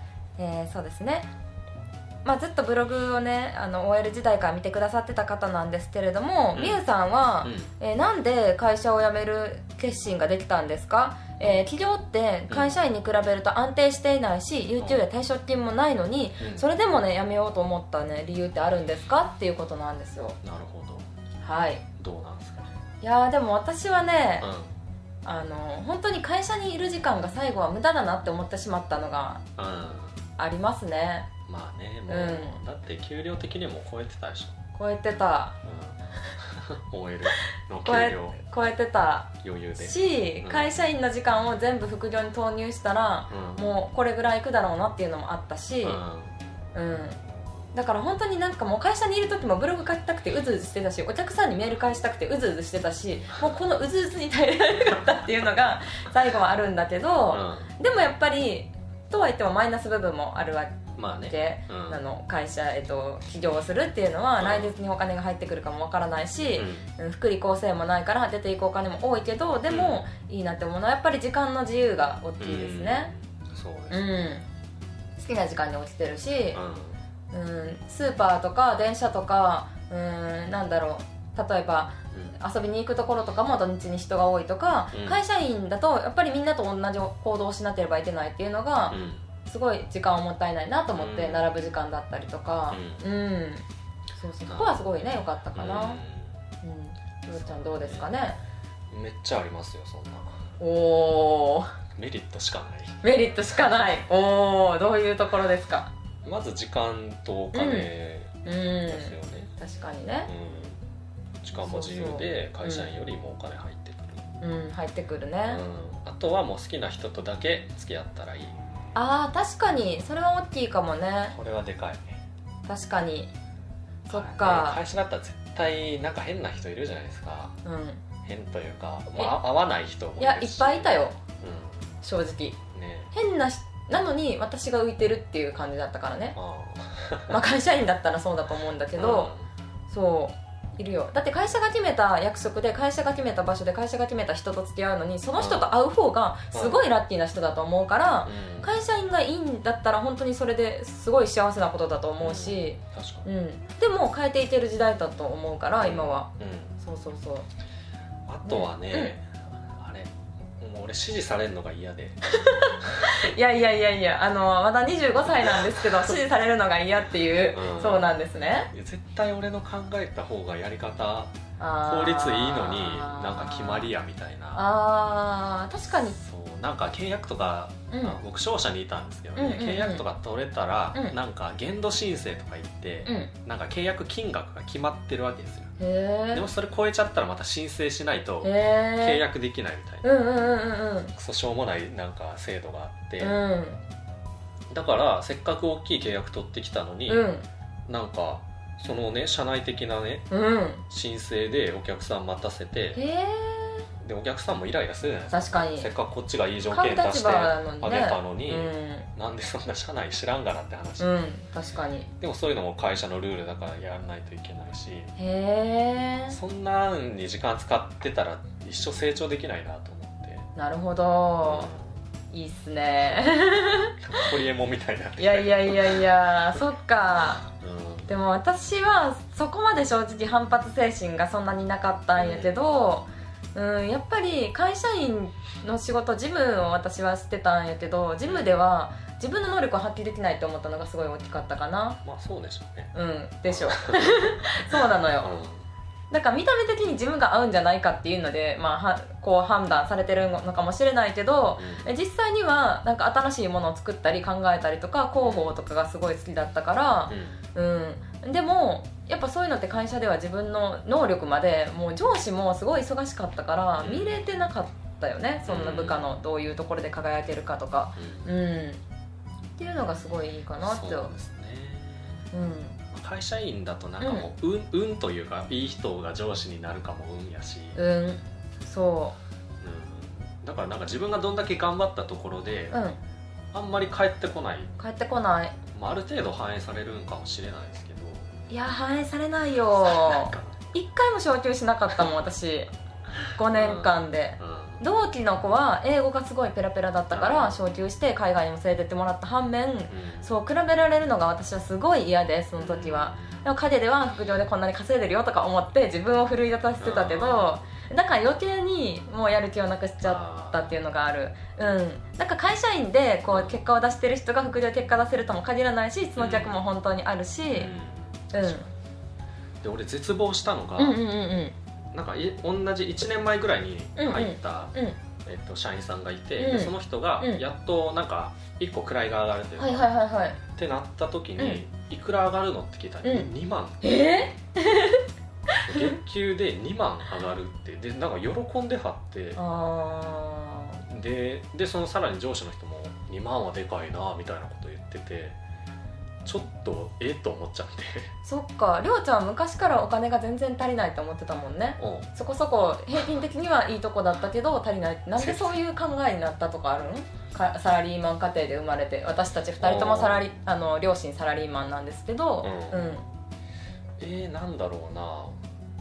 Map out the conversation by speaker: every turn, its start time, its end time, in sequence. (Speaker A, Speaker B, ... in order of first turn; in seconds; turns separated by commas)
Speaker A: 0.4-1.3, Speaker A: 2.2-20.4, Speaker B: 6.5-6.8, Speaker B: 7.4-7.7, Speaker B: 12.5-12.8, Speaker B: 14.8-15.0, Speaker B: 16.4-16.6, Speaker B: 20.4-21.1, Speaker A: 21.4-21.8, Speaker B: 22.0-22.7, Speaker A: 23.0-24.5, Speaker B: 24.4-24.7, Speaker A: 25.2-29.4, Speaker B: 29.6-30.2, Speaker A: 30.4-31.3, Speaker B: 31.5-34.5, Speaker A: 32.1-32.6, Speaker A: 34.7-35.6, Speaker B: 35.6-38.4, Speaker A: 37.8-46.0, Speaker B: 39.4-40.8, Speaker B: 43.3-43.7, Speaker B: 45.8-46.3, Speaker A: 46.7-47.2, Speaker A: 47.7-73.1, Speaker B: 57.3-57.7, Speaker B: 61.0-62.0, Speaker B: 64.4-64.7, Speaker B: 66.5-66.9, Speaker B: 69.7-70.0, Speaker B: 72.4-74.3, Speaker A: 73.9-74.4, Speaker A: 75.2-76.6, Speaker B: 76.5-77.0, Speaker A: 77.3-96.0, Speaker B: 84.9-85.2, Speaker B: 88.9-89.2, Speaker B: 90.9-91.5, Speaker B: 92.7-93.0, Speaker B: 94.5-94.8, Speaker B: 95.5-96.4, Speaker A: 96.6-98.4, Speaker B: 97.8-98.1, Speaker B: 98.9-100.4, Speaker A: 100.6-101.7, Speaker B: 101.9-103.0, Speaker A: 103.0-105.9, Speaker B: 106.2-109.5, Speaker A: 107.5-107.9, Speaker A: 108.4-110.3, Speaker B: 110.2-110.8, Speaker B: 111.4-114.2, Speaker A: 111.5-112.9, Speaker A: 114.4-115.6, Speaker B: 115.5-118.6, Speaker A: 118.9-121.3, Speaker B: 121.3-122.2, Speaker A: 122.7-123.3, Speaker B: 124.1-127.5, Speaker A: 124.1-124.8, Speaker A: 127.6-128.0, Speaker B: 128.2-131.8, Speaker A: 130.2-131.2, Speaker A: 132.0-132.6, Speaker B: 132.7-133.1, Speaker A: 133.1-136.3, Speaker B: 136.3-137.4, Speaker A: 137.3-139.3, Speaker B: 138.9-139.5, Speaker A: 139.9-157.5, Speaker B: 145.4-145.7, Speaker B: 146.5-146.8, Speaker B: 148.2-148.7, Speaker B: 152.2-153.2, Speaker B: 155.8-156.7, Speaker B: 158.3-162.2, Speaker A: 158.4-159.1, Speaker A: 162.3-168.7, Speaker B: 162.8-163.2, Speaker B: 167.5-168.1, Speaker B: 168.7-174.7, Speaker A: 171.6-173.9, Speaker A: 174.5-176.2, Speaker B: 175.9-185.7, Speaker A: 177.9-178.2, Speaker A: 179.3-180.0, Speaker A: 183.1-183.3, Speaker A: 185.8-186.5, Speaker B: 186.3-190.1, Speaker A: 188.4-189.2, Speaker A: 190.0-191.1, Speaker B: 191.1-193.4, Speaker A: 193.2-193.8, Speaker B: 194.7-197.3, Speaker A: 197.1-197.5, Speaker B: 197.9-200.2, Speaker A: 200.3-200.8, Speaker B: 200.9-203.0, Speaker A: 202.9-203.9, Speaker B: 204.0-211.2, Speaker A: 205.3-205.9, Speaker A: 206.7-209.1, Speaker A: 211.0-212.1, Speaker B: 212.2-215.1, Speaker A: 215.2-216.3, Speaker B: 216.3-220.5, Speaker A: 220.6-221.7, Speaker B: 221.4-222.0, Speaker A: 222.3-224.3, Speaker B: 223.0-226.6, Speaker A: 225.2-227.4, Speaker B: 227.6-228.1, Speaker A: 228.1-242.0, Speaker B: 232.2-232.7, Speaker B: 238.2-238.5, Speaker B: 242.0-242.9, Speaker A: 242.9-245.3, Speaker B: 243.5-245.6, Speaker A: 246.1-268.8, Speaker B: 251.6-251.9, Speaker B: 255.2-255.6, Speaker B: 257.1-257.4, Speaker B: 263.8-264.2, Speaker B: 265.4-266.1, Speaker B: 268.0-268.3, Speaker A: 269.6-271.1, Speaker B: 270.6-272.2, Speaker A: 272.3-272.8, Speaker B: 272.9-277.8, Speaker A: 274.0-274.3, Speaker A: 277.7-279.2, Speaker B: 279.6-282.8, Speaker A: 282.7-283.0, Speaker B: 283.5-284.7, Speaker A: 284.8-285.6, Speaker B: 285.7-288.3, Speaker A: 288.5-292.7, Speaker B: 289.8-290.6, Speaker A: 293.3-317.7, Speaker B: 293.5-294.8, Speaker B: 297.1-297.6, Speaker B: 299.9-300.3, Speaker B: 302.6-303.4, Speaker B: 306.8-307.5, Speaker B: 310.0-310.7, Speaker B: 313.3-313.6, Speaker B: 316.2-316.6, Speaker B: 317.5-318.6, Speaker A: 318.3-318.7, Speaker B: 319.6-321.0, Speaker A: 320.8-321.5, Speaker B: 321.9-329.9, Speaker A: 323.9-325.0, Speaker A: 326.4-327.4, Speaker A: 329.6-330.4, Speaker B: 330.6-334.2, Speaker A: 331.4-331.6, Speaker A: 333.0-333.3, Speaker A: 333.8-336.0, Speaker B: 335.6-339.4, Speaker A: 339.4-340.8, Speaker B: 340.9-345.4, Speaker B: 346.2-348.1, Speaker A: 348.2-363.1, Speaker B: 351.8-352.1, Speaker B: 355.2-355.6, Speaker B: 359.6-360.3, Speaker B: 362.4-362.9, Speaker B: 364.0-365.4